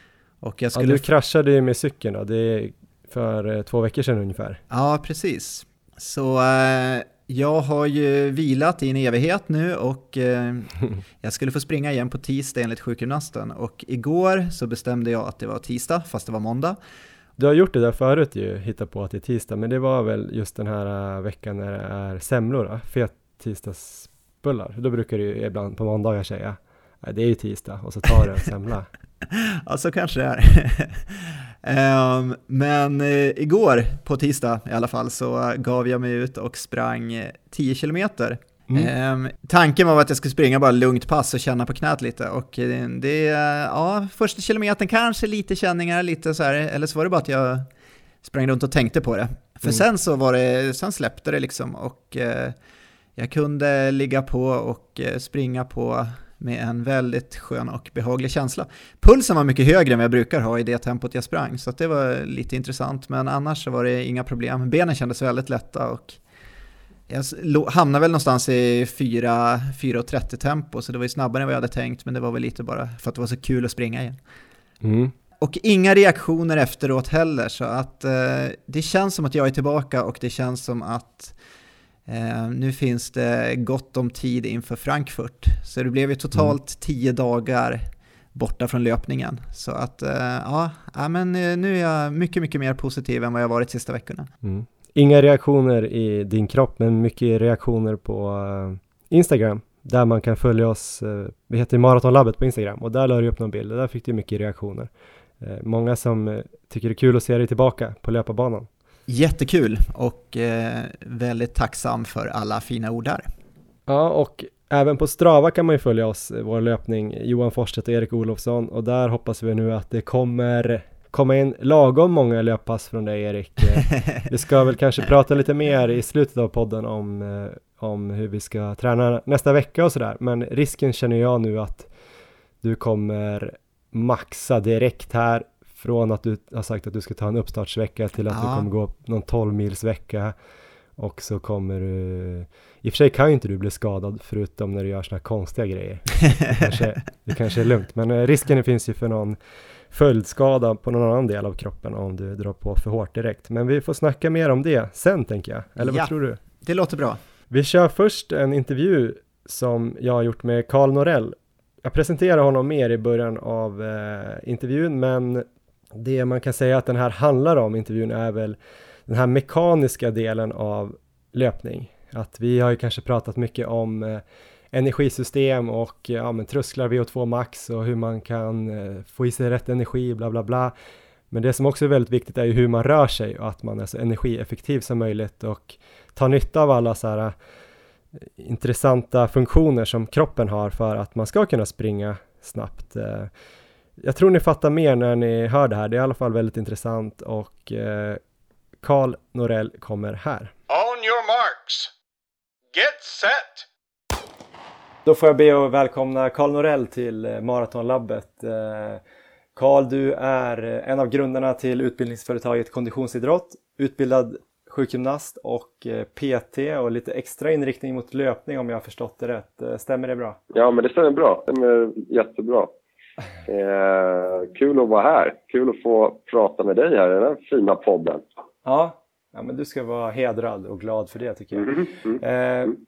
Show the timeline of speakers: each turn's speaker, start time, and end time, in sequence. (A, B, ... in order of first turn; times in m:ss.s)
0:00.4-0:01.1 A
0:00.8-0:04.6 B
0:04.7-0:16.8 A
0:17.4-0:28.9 B
0:29.2-0:47.7 A
0:48.2-0:52.6 A
0:53.2-1:06.2 A
1:07.1-1:14.2 A
1:14.8-1:15.1 B
1:15.4-1:21.4 A
1:22.1-1:34.3 A
1:34.4-1:48.7 B
1:49.1-1:53.3 A
1:53.9-2:11.9 B
2:12.6-2:20.3 B
2:18.3-2:18.7 A
2:21.0-2:29.4 B
2:29.9-2:36.4 B
2:35.8-2:37.2 A
2:37.5-3:00.7 B
3:01.3-3:07.3 B
3:08.4-3:13.3 B
3:14.0-3:18.2 B
3:18.8-3:20.5 B
3:20.7-3:21.9 C
3:22.7-3:23.7 C
3:25.0-3:29.0 B
3:29.6-3:40.4 B
3:40.5-3:42.7 D
3:43.5-3:48.2 D
3:48.6-3:52.7 B
3:51.6-3:52.2 D